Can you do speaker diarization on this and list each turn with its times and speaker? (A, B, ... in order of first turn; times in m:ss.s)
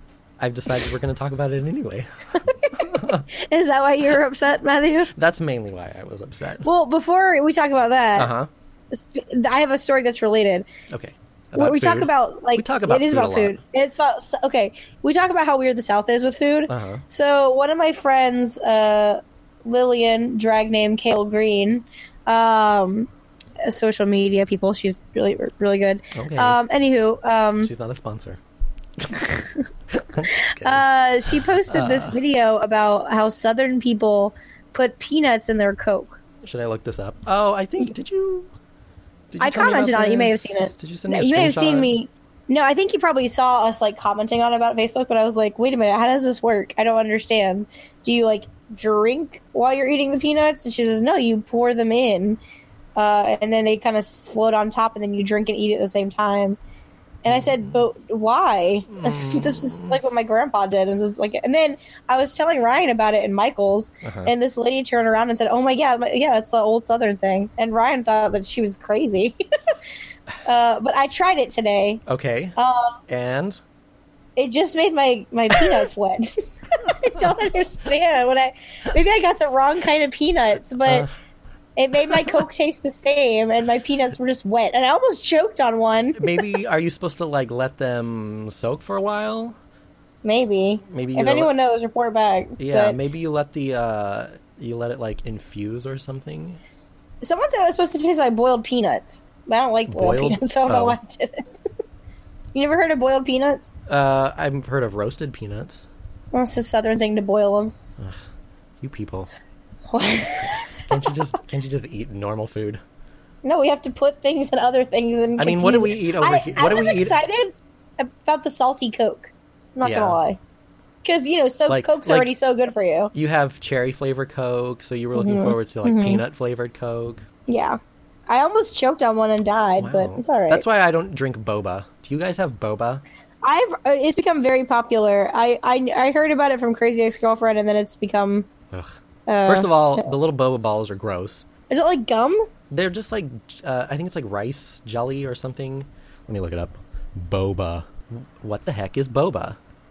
0:00.4-0:02.1 A
0:02.5-0:05.1 B
0:02.7-0:03.3 A
0:05.1-0:06.6 A
0:06.6-0:08.3 B
0:08.2-0:08.5 A
0:08.9-0:10.7 B
0:10.9-0:13.6 A
0:11.6-0:23.1 B
0:16.7-0:17.0 A
0:23.6-0:27.7 B
0:26.1-0:26.6 A
0:27.6-0:28.4 A
0:29.0-0:29.3 A
0:29.9-0:30.8 A
0:30.3-0:36.2 B
0:31.4-0:32.2 A
0:36.4-0:38.5 A
0:39.3-0:41.9 A
0:39.4-0:52.4 B
0:53.0-0:56.6 B
0:57.2-1:09.4 B
0:57.3-0:57.8 A
0:58.9-1:00.0 A
1:04.0-1:04.3 A
1:10.4-1:12.0 B
1:12.1-1:12.6 A
1:12.6-1:13.0 B
1:13.1-1:13.6 A
1:14.4-1:21.1 B
1:20.8-1:21.1 A
1:21.8-1:26.4 B
1:22.1-1:22.4 A
1:26.2-1:29.6 A
1:30.2-1:33.0 B
1:30.9-1:31.5 A
1:32.6-1:36.6 A
1:37.2-1:41.4 B
1:39.9-1:41.0 A
1:42.5-1:43.7 B
1:43.9-1:45.9 A
1:46.3-1:47.7 B
1:48.8-1:49.3 A
1:49.9-1:50.9 B
1:50.8-1:52.8 A
1:53.4-2:00.4 B
1:55.4-1:57.2 A
1:59.8-2:00.2 A
2:01.0-2:03.1 B
2:01.7-2:02.3 A
2:03.1-2:07.2 A
2:05.1-2:06.2 B
2:07.5-2:10.6 B
2:09.8-2:13.0 A
2:13.4-2:18.5 B
2:19.3-2:20.1 B
2:19.4-2:21.4 A
2:21.7-2:22.4 B
2:22.7-2:29.6 A